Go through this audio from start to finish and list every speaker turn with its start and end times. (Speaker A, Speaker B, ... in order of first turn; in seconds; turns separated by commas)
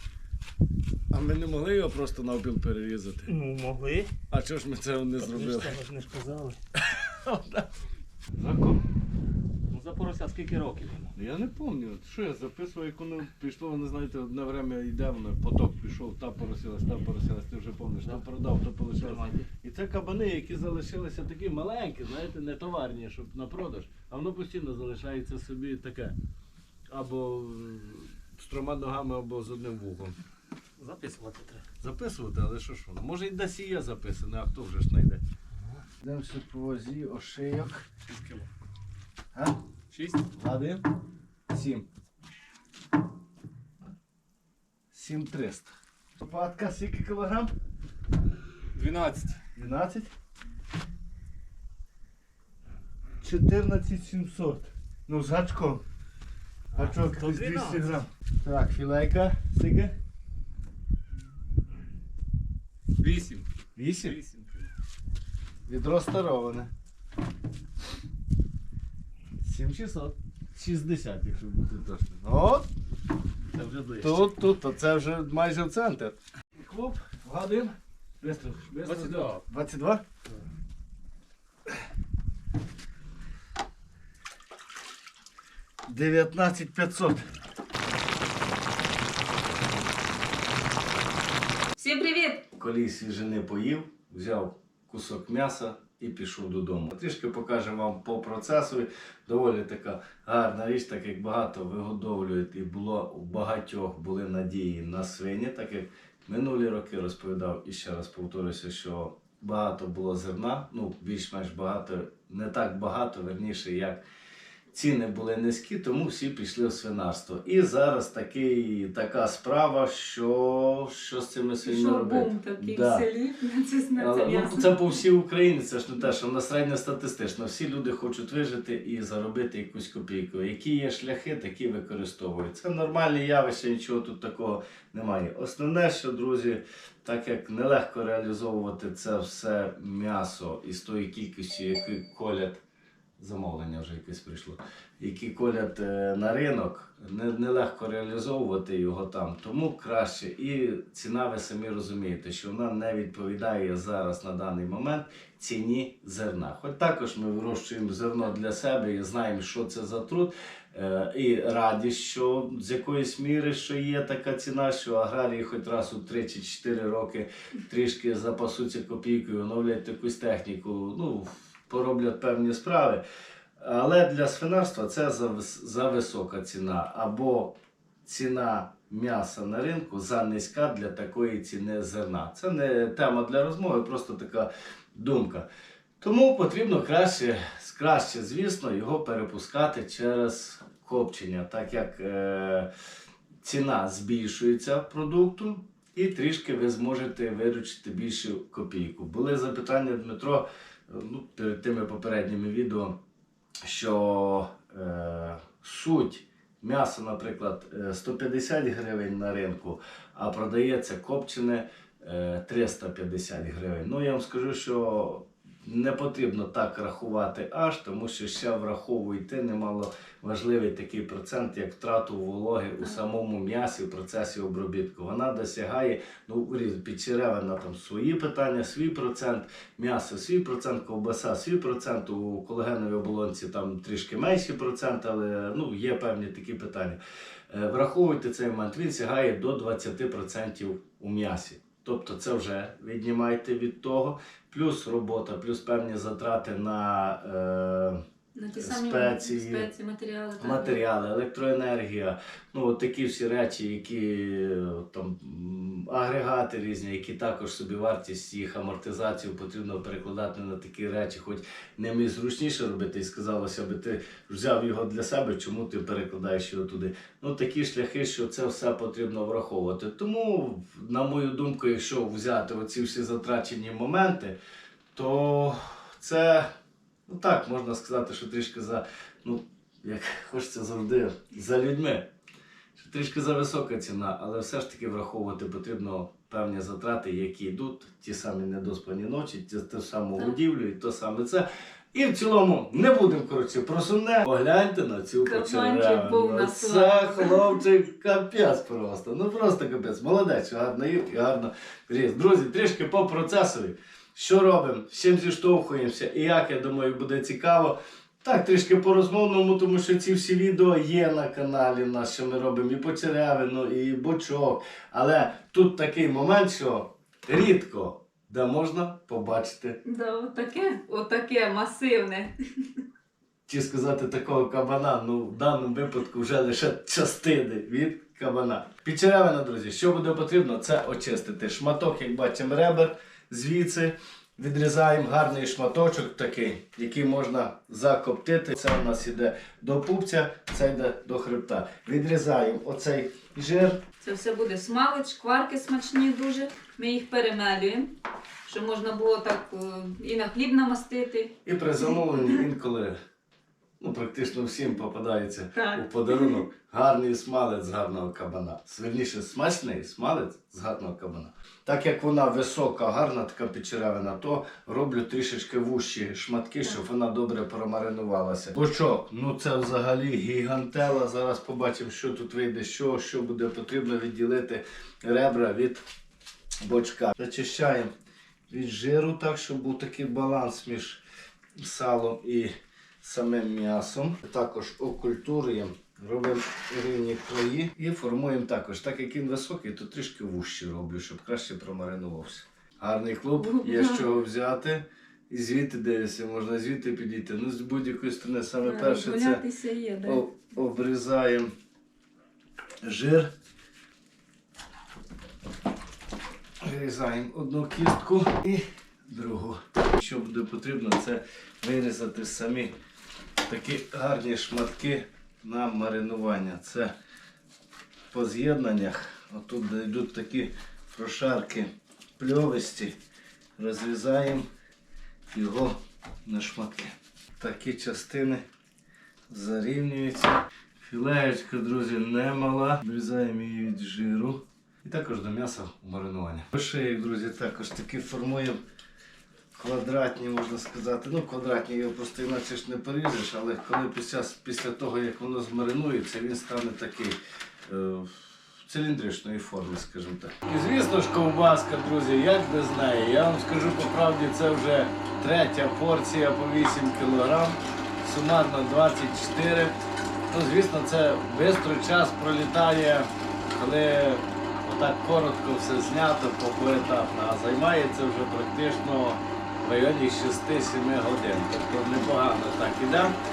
Speaker A: 1.1-3.3, Speaker B: 3.2-4.1, Speaker A: 4.3-5.8, Speaker B: 5.2-6.6, Speaker A: 6.8-7.7, Speaker A: 8.3-8.8, Speaker B: 9.7-11.1, Speaker A: 11.1-26.1, Speaker B: 18.9-19.5, Speaker A: 26.9-30.2, Speaker B: 30.8-31.7, Speaker A: 31.8-35.2, Speaker B: 35.5-35.9, Speaker A: 36.0-37.9, Speaker B: 38.0-38.5, Speaker B: 39.9-40.2, Speaker A: 40.3-40.9, Speaker A: 41.5-41.9, Speaker A: 44.9-47.5, Speaker B: 48.7-49.4, Speaker A: 49.5-50.1, Speaker A: 53.2-55.8, Speaker B: 56.7-58.0, Speaker A: 56.8-59.9, Speaker B: 63.0-63.5, Speaker A: 63.8-64.2, Speaker B: 64.0-64.7, Speaker A: 65.7-66.7, Speaker A: 69.4-72.7, Speaker B: 73.5-74.3, Speaker A: 74.0-80.0, Speaker B: 78.8-79.4, Speaker A: 85.9-87.3, Speaker C: 91.8-92.5, Speaker A: 92.5-114.0, Speaker A: 114.7-123.1, Speaker C: 121.6-124.7, Speaker A: 123.9-142.6, Speaker A: 143.2-173.0, Speaker A: 173.6-185.5, Speaker A: 186.0-192.7, Speaker A: 193.4-203.0, Speaker A: 203.6-237.0, Speaker A: 237.5-248.0, Speaker C: 248.3-250.8, Speaker A: 248.6-249.7, Speaker A: 250.4-274.4, Speaker A: 274.9-276.5, Speaker A: 277.1-282.1, Speaker A: 282.8-319.8, Speaker C: 295.2-297.6, Speaker C: 319.8-322.3, Speaker A: 323.5-343.8, Speaker C: 344.0-347.9, Speaker C: 348.4-352.4, Speaker A: 351.4-353.0, Speaker A: 353.8-375.8, Speaker C: 355.5-356.4, Speaker A: 376.6-377.9, Speaker A: 378.5-381.0, Speaker A: 381.6-399.4, Speaker C: 393.4-394.2, Speaker C: 398.6-400.2, Speaker A: 400.0-401.5, Speaker A: 402.8-403.3, Speaker A: 406.6-412.7, Speaker A: 413.4-416.9, Speaker A: 418.1-423.0, Speaker A: 423.6-424.5, Speaker A: 425.3-428.4, Speaker A: 429.3-438.6, Speaker A: 439.5-447.1, Speaker A: 447.7-459.7, Speaker A: 460.3-473.1